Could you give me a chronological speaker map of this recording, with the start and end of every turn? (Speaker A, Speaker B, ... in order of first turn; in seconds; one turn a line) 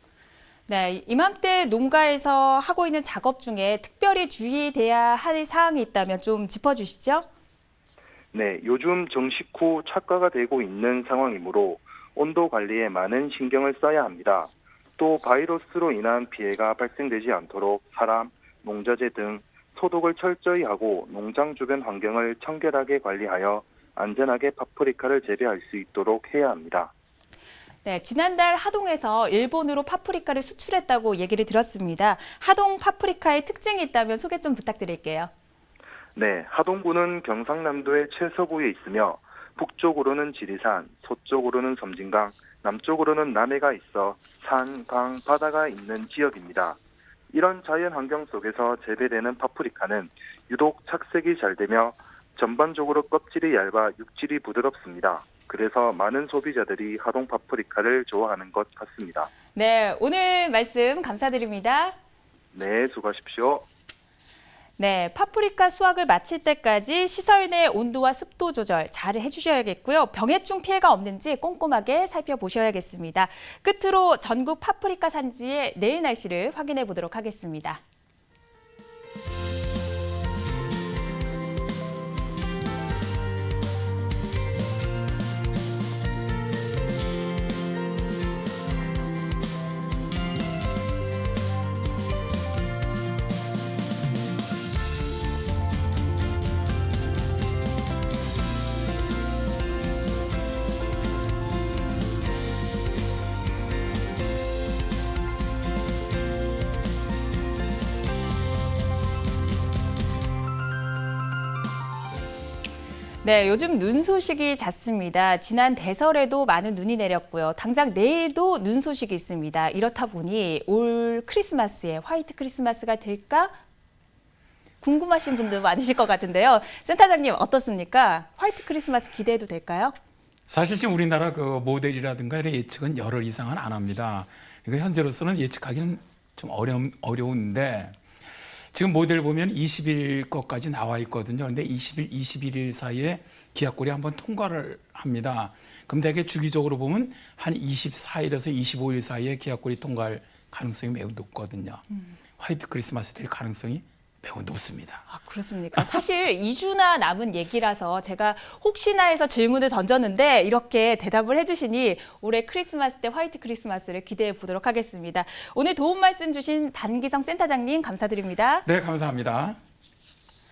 Speaker A: 0.7-7.2
Speaker B: 8.3-26.9
Speaker A: 27.8-35.3
Speaker B: 36.1-46.8
Speaker B: 47.3-59.3
Speaker A: 59.5-62.0
Speaker B: 62.5-63.6
Speaker A: 64.8-77.8
Speaker A: 113.2-123.5
Speaker A: 124.8-129.9
Speaker C: 130.5-138.0
Speaker C: 138.7-151.8
Speaker C: 152.4-155.1
Speaker A: 155.1-168.7
Speaker C: 168.7-169.6